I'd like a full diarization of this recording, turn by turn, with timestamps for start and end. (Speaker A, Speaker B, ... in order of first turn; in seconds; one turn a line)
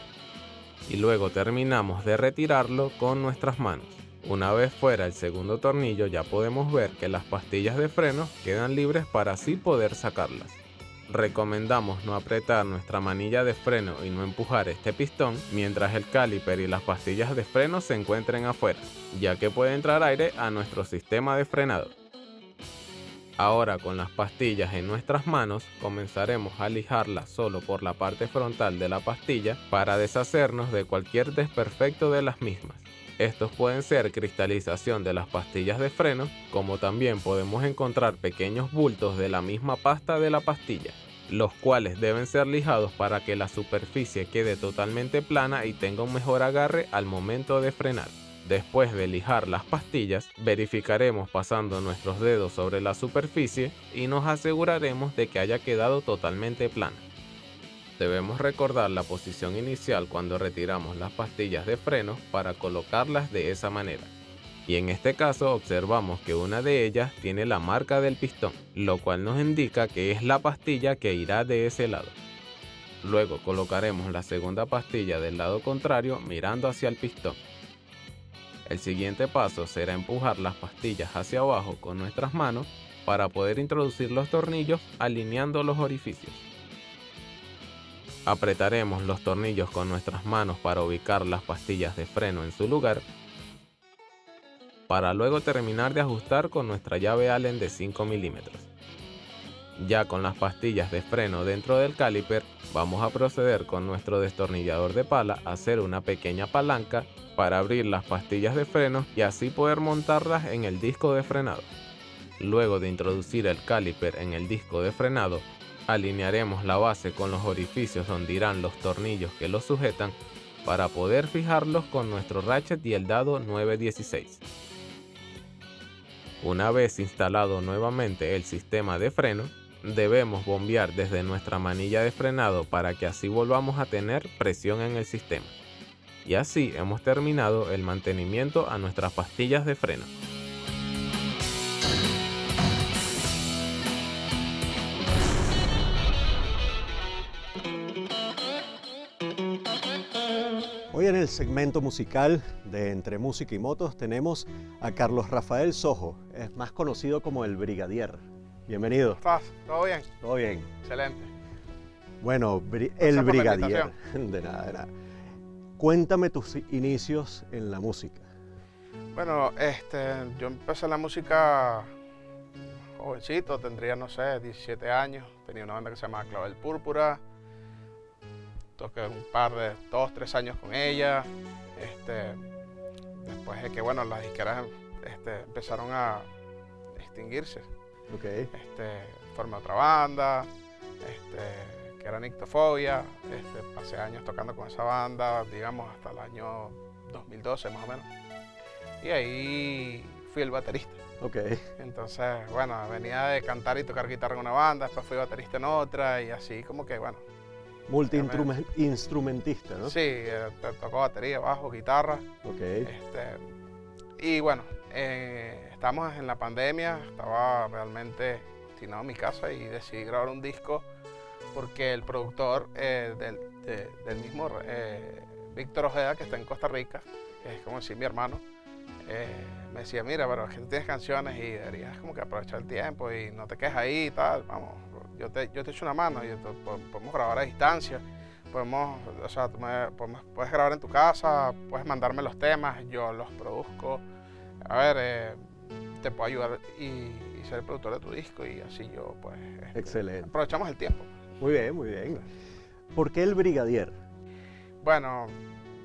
Speaker A: 0.9-10.6
Speaker A: 11.1-21.9
Speaker A: 23.4-57.0
Speaker A: 58.0-64.1
Speaker A: 64.7-72.1
Speaker A: 73.0-77.4
Speaker A: 78.7-86.4
Speaker A: 88.2-93.0
Speaker A: 94.9-98.7
Speaker A: 99.8-111.7
Speaker A: 112.4-124.4
Speaker A: 126.4-135.5
Speaker A: 136.2-140.1
Speaker B: 150.9-159.2
Speaker C: 159.2-160.1
Speaker B: 160.2-160.7
Speaker C: 160.8-161.3
Speaker B: 162.2-164.9
Speaker C: 163.0-163.9
Speaker B: 165.8-168.2
Speaker C: 169.1-171.9
Speaker C: 172.9-177.2
Speaker C: 178.8-182.4
Speaker C: 183.2-186.3
Speaker C: 187.0-187.7
Speaker B: 188.1-188.5
Speaker C: 188.5-190.5
Speaker C: 191.0-198.1
Speaker C: 199.0-201.0
Speaker B: 201.2-201.7
Speaker C: 201.8-207.2
Speaker B: 207.9-209.9
Speaker C: 208.1-208.5
Speaker C: 209.8-212.3
Speaker B: 212.4-212.9
Speaker C: 212.8-213.4
Speaker C: 214.2-220.8
Speaker C: 221.5-228.4
Speaker C: 229.1-244.0
Speaker C: 244.7-245.5
Speaker C: 246.0-251.1
Speaker B: 249.7-250.3
Speaker B: 251.4-252.3
Speaker B: 252.9-253.9
Speaker C: 254.8-255.4